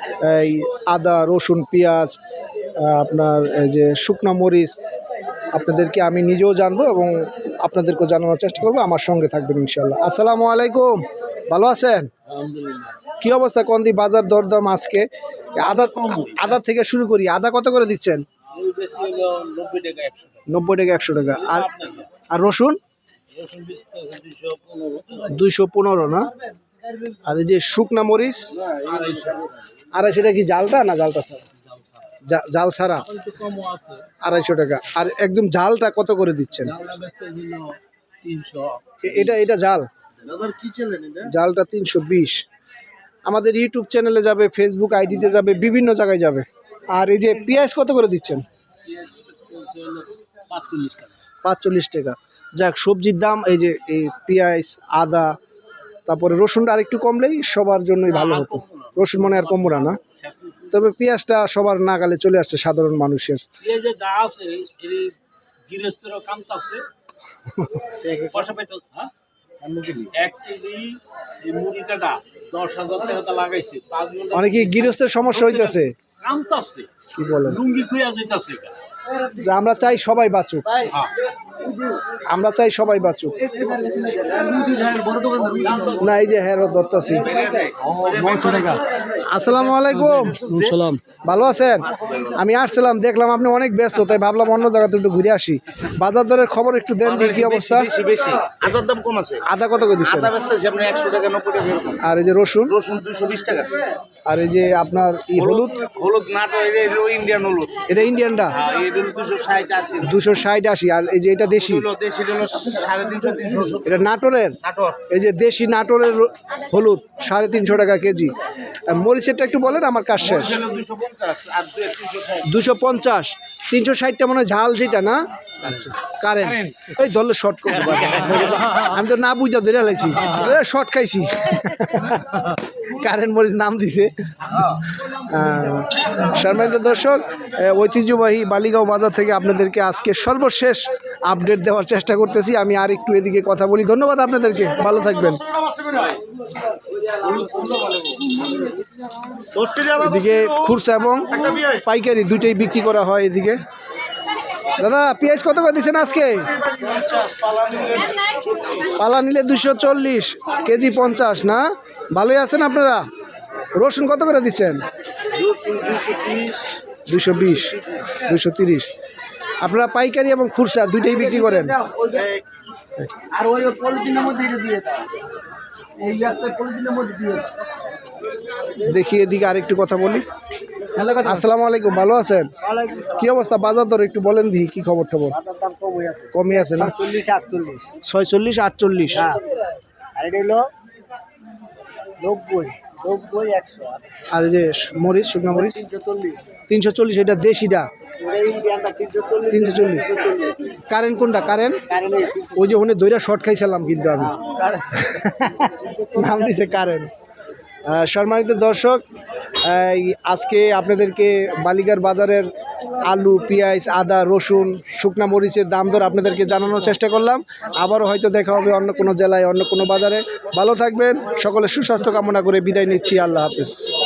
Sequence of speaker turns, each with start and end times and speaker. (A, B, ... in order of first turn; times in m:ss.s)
0:00.2-0:02.2 A
0:02.8-0:04.8 A
0:05.5-0:12.1 A
0:12.3-0:13.0 B
0:13.2-0:15.0 A
0:15.6-0:18.2 A
0:15.6-0:16.5 B
0:18.5-0:20.4 B
0:20.5-0:21.7 A
0:21.4-0:22.1 B
0:22.3-0:22.8 A
0:23.3-0:25.3 B
0:25.3-0:26.3 A
0:27.2-0:28.6 A
0:28.7-0:29.6 B
0:29.9-0:31.4 A
0:32.3-0:33.1 A
0:33.0-0:34.1 B
0:34.2-0:36.7 A
0:36.6-0:39.3 B
0:39.0-0:39.9 A
0:40.3-0:41.2 C
0:40.4-0:41.1 D
0:41.2-0:42.4 A
0:43.3-0:48.4 A
0:48.9-0:51.2 B
0:51.4-0:55.3 A
0:56.1-1:00.0 A
0:58.1-1:00.9 B
1:00.7-1:03.4 A
1:03.6-1:06.8 B
1:07.5-1:07.9 A
1:08.0-1:08.4 D
1:08.1-1:09.1 B
1:09.6-1:10.1 D
1:10.1-1:16.9 B
1:14.3-1:15.9 A
1:17.1-1:17.6 A
1:17.4-1:18.8 B
1:19.3-1:20.7 A
1:20.7-1:21.1 B
1:22.2-1:23.4 A
1:23.5-1:26.0 B
1:26.0-1:27.4 A
1:27.3-1:28.6 C
1:27.9-1:28.8 D
1:28.1-1:28.8 B
1:29.2-1:30.4 A
1:29.9-1:31.0 B
1:30.2-1:30.8 C
1:31.2-1:37.9 A
1:37.0-1:39.4 C
1:39.4-1:40.3 A
1:40.2-1:42.0 C
1:42.0-1:42.8 A
1:42.7-1:43.7 C
1:44.2-1:45.8 A
1:45.4-1:47.8 C
1:47.8-1:48.6 A
1:48.6-1:50.0 C
1:50.0-1:51.9 A
1:51.6-1:53.8 C
1:53.8-1:58.3 A
1:54.6-1:55.0 C
1:58.9-2:00.6 A
2:00.3-2:02.4 C
2:02.4-2:25.4 A
2:08.2-2:08.6 B
2:25.8-2:26.1 C
2:29.6-2:30.0 C
2:30.0-2:33.6 A
2:34.8-2:36.5 A
2:36.8-2:38.8 B
2:38.8-2:43.0 A
2:43.8-2:44.8 A
2:45.4-2:46.5 D
2:45.4-2:46.6 B
2:47.1-2:48.9 A
2:49.6-2:51.8 A
2:51.4-2:52.4 D
2:53.3-2:55.1 D
2:56.0-2:57.5 D
2:58.8-3:00.2 A
3:01.2-3:02.5 A
3:02.6-3:03.3 D
3:03.2-3:05.4 A
3:05.3-3:08.0 D
3:06.3-3:06.9 A
3:08.0-3:09.3 A
3:09.2-3:09.4 D
3:10.2-3:10.7 D
3:12.2-3:14.0 D
3:14.3-3:15.8 A
3:15.5-3:16.4 D
3:16.7-3:17.9 A
3:18.2-3:20.6 D
3:19.5-3:20.0 A
3:20.9-3:21.8 A
3:21.9-3:22.7 D
3:22.6-3:27.1 A
3:25.7-3:26.7 D
3:27.9-3:29.0 A
3:29.6-3:32.5 A
3:33.0-3:43.9 A